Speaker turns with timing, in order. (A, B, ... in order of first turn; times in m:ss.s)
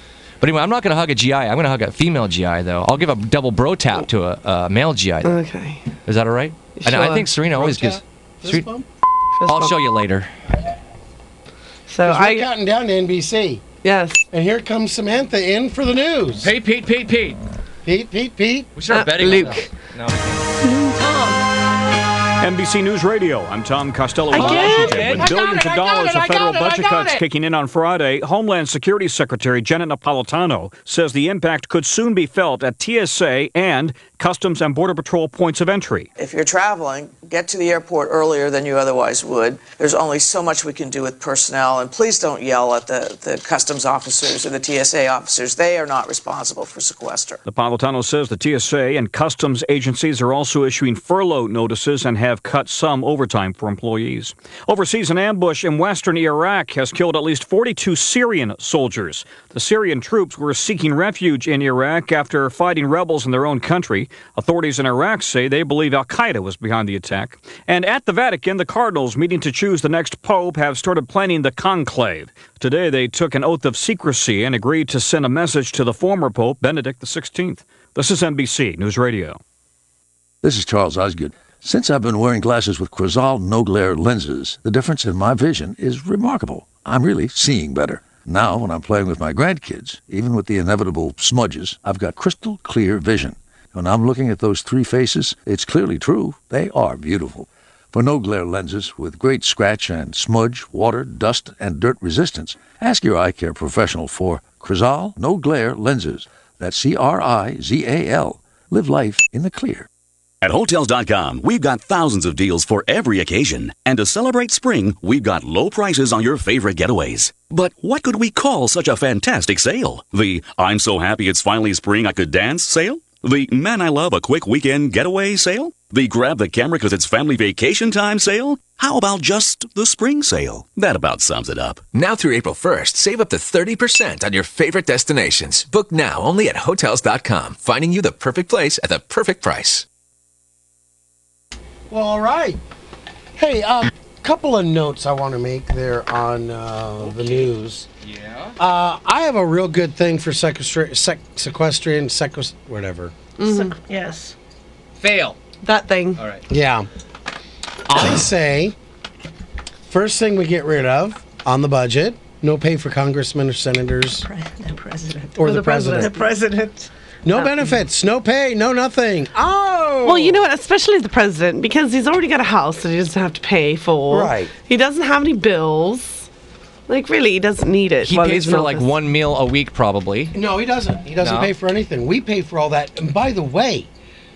0:00.4-0:05.4 A
0:05.2-0:05.8 B
0:06.0-0:08.7 A
0:06.8-0:07.3 B
0:07.4-0:08.9 C
0:09.4-0:09.8 B
0:09.5-0:10.3 A
0:11.9-0:12.5 B
0:12.0-0:13.6 C
0:13.8-0:14.2 B
0:14.3-0:16.5 C
0:16.4-0:17.4 A
0:17.8-0:19.6 C
0:18.8-0:20.4 A
0:18.9-0:19.7 B
0:20.6-0:21.0 B
0:21.0-0:21.4 D
0:22.4-0:36.1 E
0:24.3-0:27.2 A
0:24.3-0:25.1 B
0:36.2-0:47.4 F
0:47.5-1:19.4 E
1:20.4-1:49.9 G
1:50.4-2:11.8 H
2:11.9-2:19.8 I
2:21.9-2:22.6 C
2:23.4-2:27.9 C
2:27.0-2:27.5 A
2:28.0-2:28.6 A
2:28.6-2:33.2 C
2:33.4-2:33.7 B
2:33.4-2:34.4 D
2:35.0-2:35.4 A
2:35.6-2:36.2 B
2:36.2-2:36.4 A
2:36.5-2:36.9 C
2:37.9-2:38.8 C
2:39.9-2:44.3 C
2:44.2-2:45.4 D
2:45.4-2:46.2 C
2:45.4-2:46.2 B
2:46.0-2:46.9 D
2:47.2-2:50.5 C
2:47.4-2:47.6 B
2:50.0-2:56.3 B
2:54.1-2:54.5 C
2:56.9-2:58.9 B
2:58.0-3:00.4 A
3:00.3-3:03.9 C
3:01.2-3:01.5 A